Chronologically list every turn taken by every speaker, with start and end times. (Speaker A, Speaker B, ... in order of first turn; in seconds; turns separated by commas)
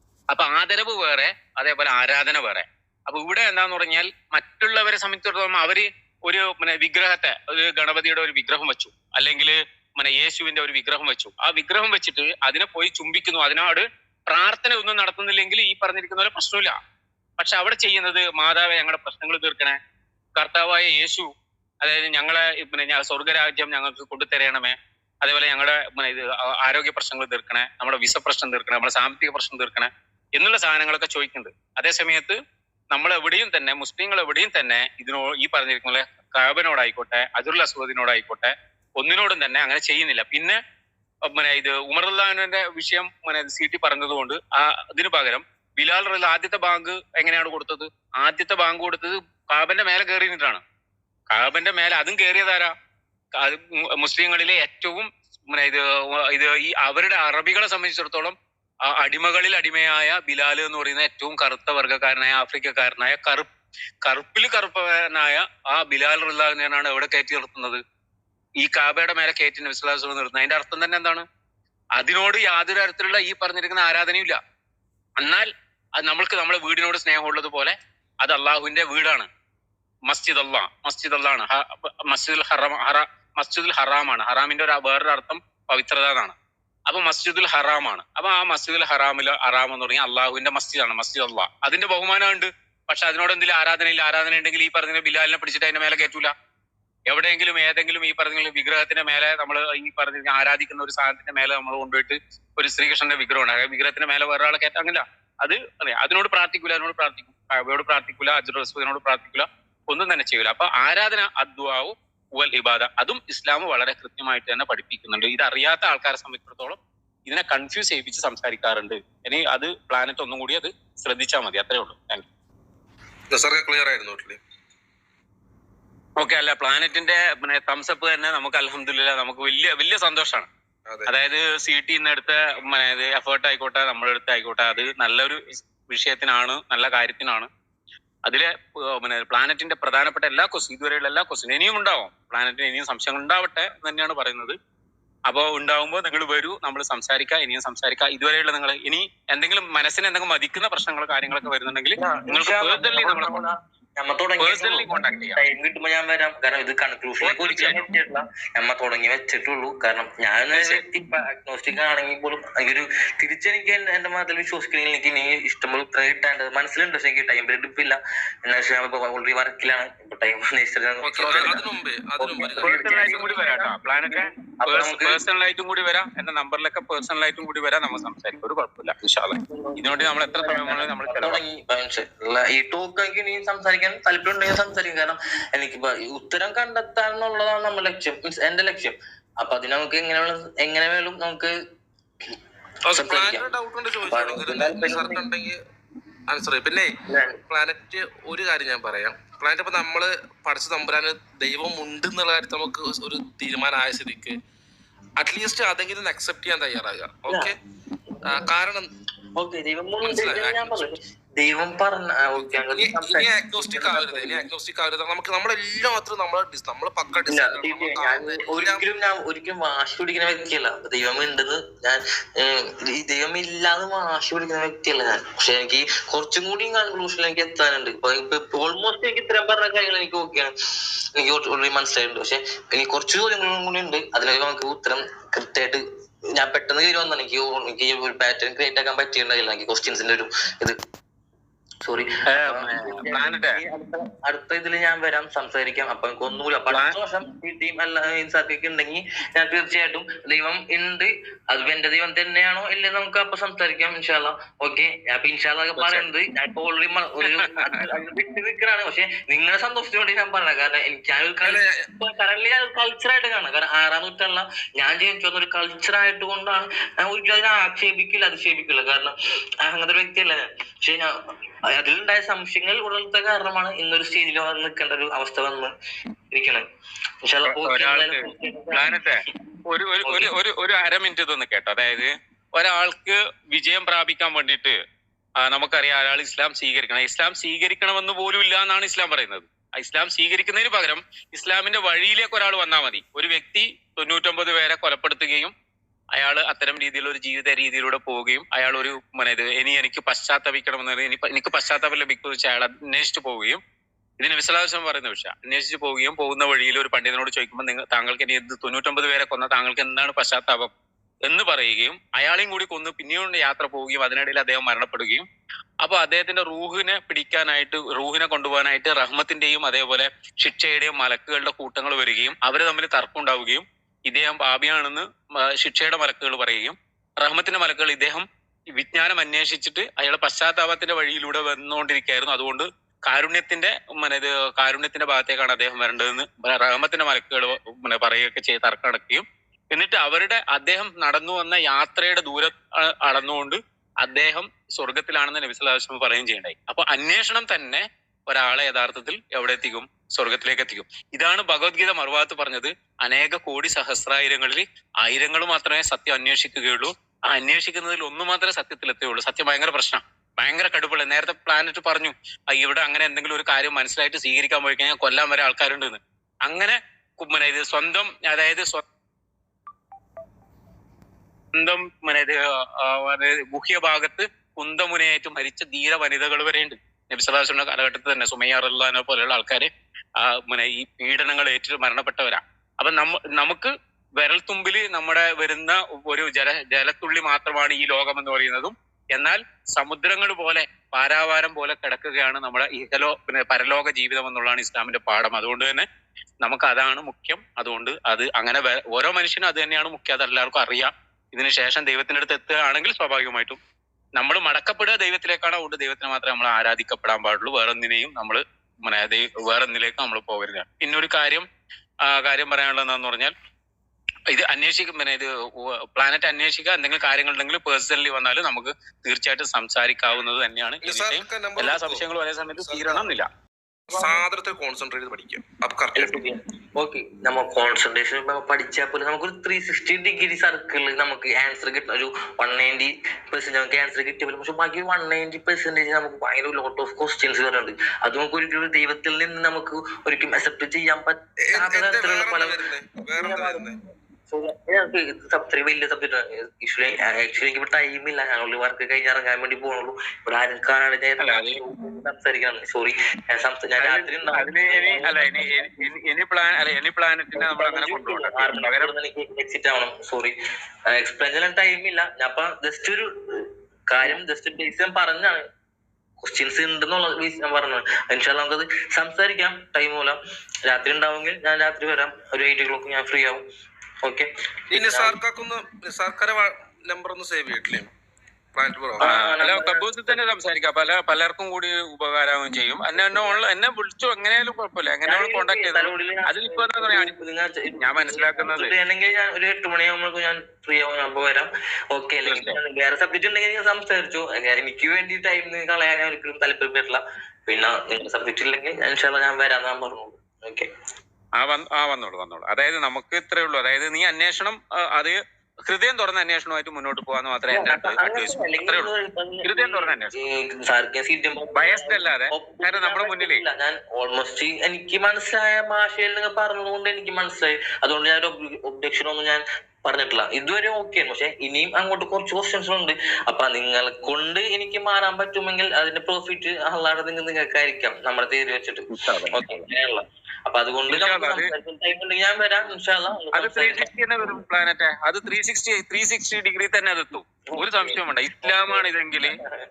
Speaker A: 0.3-16.7, Speaker A: 17.4-19.8, Speaker A: 20.4-21.3, Speaker A: 21.8-32.4, Speaker A: 32.9-40.6, Speaker A: 41.2-50.6, Speaker A: 51.3-52.7, Speaker A: 53.4-58.3, Speaker A: 58.9-63.5, Speaker A: 64.0-67.8, Speaker A: 68.6-71.2, Speaker A: 72.0-74.4, Speaker A: 75.2-79.3, Speaker A: 80.1-86.3, Speaker A: 86.9-96.3, Speaker A: 97.1-122.2, Speaker B: 123.3-124.4, Speaker A: 126.2-130.5, Speaker A: 131.1-137.5, Speaker A: 138.2-144.5, Speaker A: 145.3-153.3, Speaker C: 152.0-171.7, Speaker A: 154.4-155.4, Speaker A: 157.2-157.9, Speaker A: 160.5-160.8, Speaker A: 171.0-171.6, Speaker B: 171.0-173.4, Speaker C: 172.2-175.2, Speaker A: 172.4-181.4, Speaker C: 179.5-191.5, Speaker B: 192.9-195.6, Speaker C: 192.9-193.5, Speaker C: 194.1-195.2, Speaker B: 196.3-196.9, Speaker C: 197.1-197.4, Speaker B: 197.5-204.4, Speaker B: 205.2-207.5, Speaker C: 208.2-208.4, Speaker B: 208.3-208.9, Speaker C: 209.3-214.5, Speaker B: 210.0-210.8, Speaker B: 212.7-218.8, Speaker C: 217.2-230.5, Speaker C: 231.1-235.8, Speaker C: 236.3-240.8, Speaker C: 241.8-271.1, Speaker A: 242.3-243.6, Speaker A: 255.8-256.1, Speaker A: 257.2-258.0, Speaker B: 261.4-261.8, Speaker C: 271.7-275.7, Speaker C: 276.3-276.6, Speaker C: 277.2-278.9, Speaker A: 277.5-284.8, Speaker C: 280.1-280.3, Speaker A: 285.4-295.5, Speaker A: 296.1-303.6, Speaker A: 304.2-310.7, Speaker A: 311.2-315.2, Speaker A: 315.8-368.8, Speaker A: 371.5-395.8, Speaker A: 396.4-403.6, Speaker A: 404.1-411.4, Speaker A: 412.0-413.3, Speaker A: 414.3-423.3, Speaker B: 420.8-422.1, Speaker B: 422.6-423.1, Speaker B: 423.9-426.2, Speaker C: 423.9-424.2, Speaker C: 425.9-442.6, Speaker B: 441.5-443.8, Speaker C: 443.2-443.7, Speaker C: 444.3-455.7, Speaker A: 451.2-451.6, Speaker A: 453.8-458.9, Speaker C: 457.3-460.3, Speaker C: 460.9-465.4, Speaker C: 466.2-470.1, Speaker C: 470.7-473.4, Speaker C: 474.0-475.2, Speaker B: 474.7-477.9, Speaker B: 478.5-479.1, Speaker C: 479.0-480.2, Speaker A: 479.0-487.1, Speaker C: 482.9-483.4, Speaker C: 485.1-500.7, Speaker A: 487.8-488.7, Speaker A: 492.3-492.6, Speaker A: 501.4-508.9, Speaker C: 507.5-533.9, Speaker A: 509.4-510.1, Speaker A: 511.5-513.4, Speaker A: 528.9-529.6, Speaker A: 530.9-531.5, Speaker A: 533.3-539.4, Speaker C: 537.5-539.5